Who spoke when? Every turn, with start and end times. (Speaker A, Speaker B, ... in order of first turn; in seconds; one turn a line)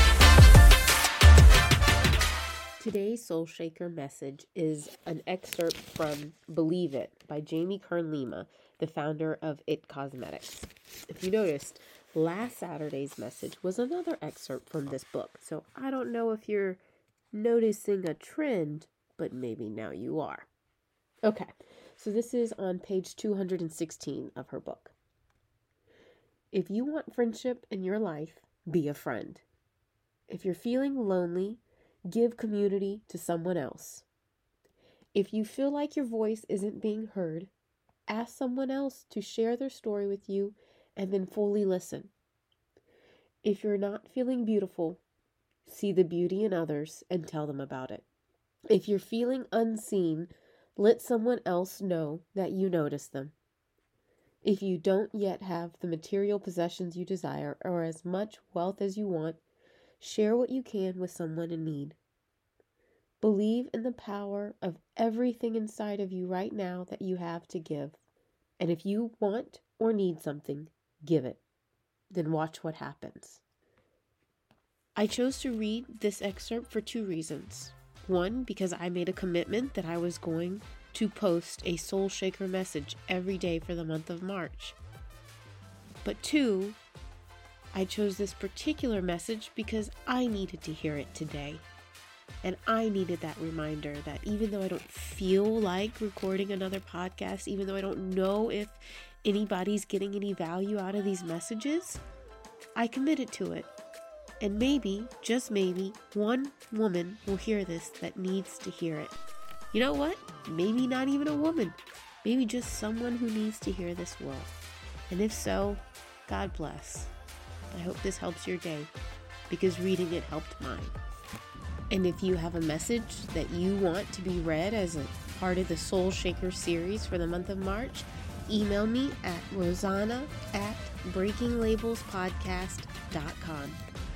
Speaker A: 2.8-16.8
Speaker A: 17.3-20.5
Speaker A: 21.2-24.9
Speaker A: 26.5-29.4
Speaker A: 30.3-34.1
Speaker A: 35.1-37.5
Speaker A: 38.1-42.1
Speaker A: 43.4-45.0
Speaker A: 45.6-48.1
Speaker A: 48.7-53.4
Speaker A: 54.4-59.4
Speaker A: 60.0-62.0
Speaker A: 63.2-68.0
Speaker A: 68.6-71.4
Speaker A: 72.1-73.4
Speaker A: 75.0-84.8
Speaker A: 86.0-86.8
Speaker A: 87.7-91.7
Speaker A: 92.4-102.0
Speaker A: 102.8-103.7
Speaker A: 104.4-109.2
Speaker A: 109.7-114.5
Speaker A: 115.1-117.1
Speaker A: 117.7-118.9
Speaker A: 119.5-121.0
Speaker A: 121.9-133.8